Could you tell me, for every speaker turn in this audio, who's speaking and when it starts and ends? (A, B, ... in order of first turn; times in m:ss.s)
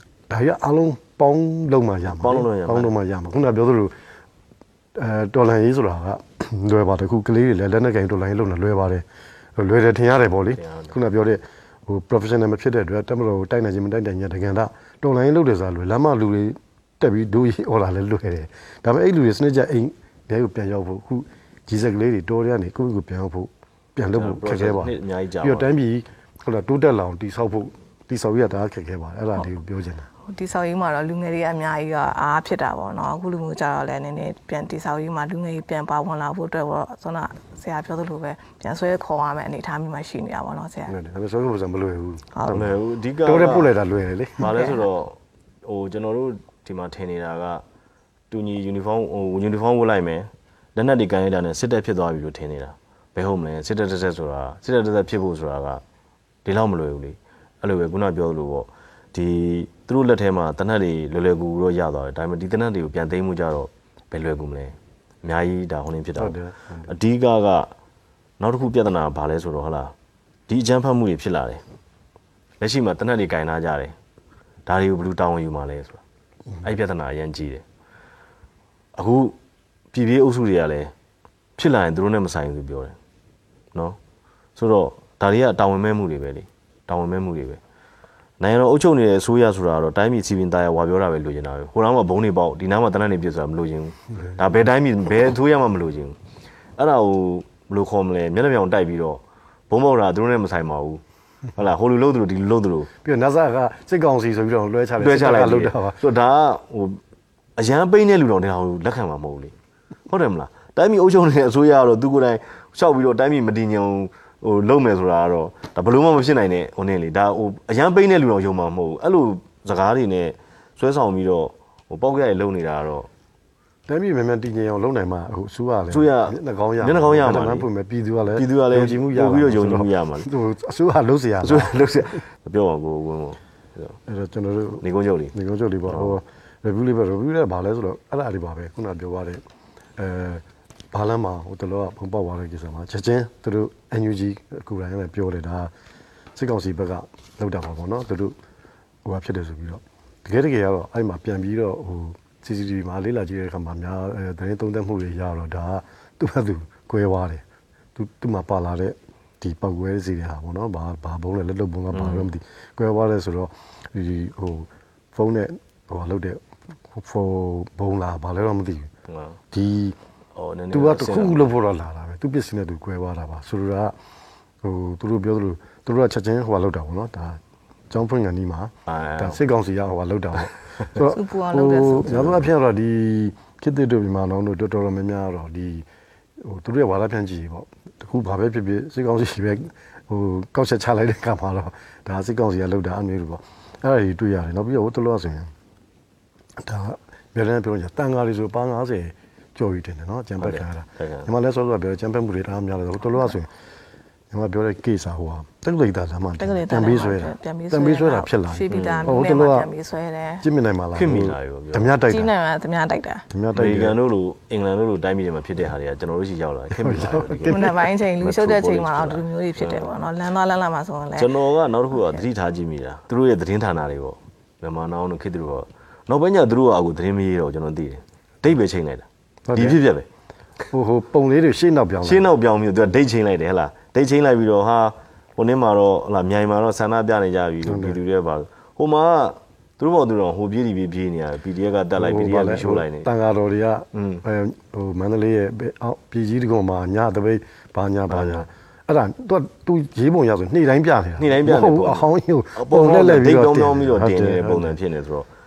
0:00.3-0:03.9 A
0:02.1-0:02.9 B
0:04.9-0:09.0 A
0:09.6-0:30.1 A
0:10.6-0:10.9 B
0:24.1-0:25.7 B
0:30.3-0:40.9 C
0:40.9-0:42.7 A
0:42.4-0:42.6 C
0:42.5-0:43.7 B
0:43.2-0:44.7 A
0:44.4-0:47.6 B
0:48.3-0:55.8 B
0:56.4-1:06.3 B
1:06.2-1:06.9 A
1:06.9-1:07.7 B
1:08.4-1:09.9 B
1:10.5-1:11.6 B
1:12.6-1:13.9 B
1:14.6-1:16.0 B
1:16.6-1:17.6 B
1:19.0-1:19.4 B
1:19.9-1:20.9 B
1:21.6-1:23.0 B
1:24.6-1:27.6 B
1:28.4-1:36.2 B
1:36.8-1:41.0 B
1:41.6-1:42.9 B
1:43.0-1:46.0 A
1:45.0-1:47.0 B
1:47.6-1:49.5 B
1:50.1-2:03.1 B
2:03.9-2:11.8 A
2:05.9-2:07.7 B
2:08.3-2:10.3 B
2:11.4-2:14.0 B
2:14.0-2:19.4 A
2:14.8-2:15.3 B
2:15.9-2:16.2 B
2:20.0-2:25.7 A
2:26.3-2:28.4 A
2:29.0-2:37.4 A
2:37.9-2:48.9 A
2:41.9-2:42.3 B
2:49.1-2:49.4 B
2:49.5-2:50.0 A
2:50.4-2:51.5 B
2:50.7-2:53.9 A
2:54.6-3:05.8 A
2:58.9-2:59.4 B
3:01.0-3:02.2 C
3:02.1-3:02.5 B
3:06.4-3:15.5 A
3:16.6-3:23.5 A
3:20.4-3:21.3 B
3:24.3-3:29.7 A
3:26.4-3:30.4 C
3:28.7-3:29.1 B
3:30.4-3:32.3 A
3:30.9-3:31.9 B
3:32.0-3:33.2 C
3:33.3-3:34.0 A
3:33.5-3:39.9 B
3:36.7-3:37.8 A
3:37.5-3:41.3 C
3:41.2-3:50.1 B
3:49.4-3:49.8 A
3:50.7-3:52.3 A
3:52.0-4:03.1 B
3:57.6-3:58.0 A
4:01.9-4:14.8 A
4:03.9-4:04.2 B
4:08.1-4:08.4 B
4:11.2-4:15.3 B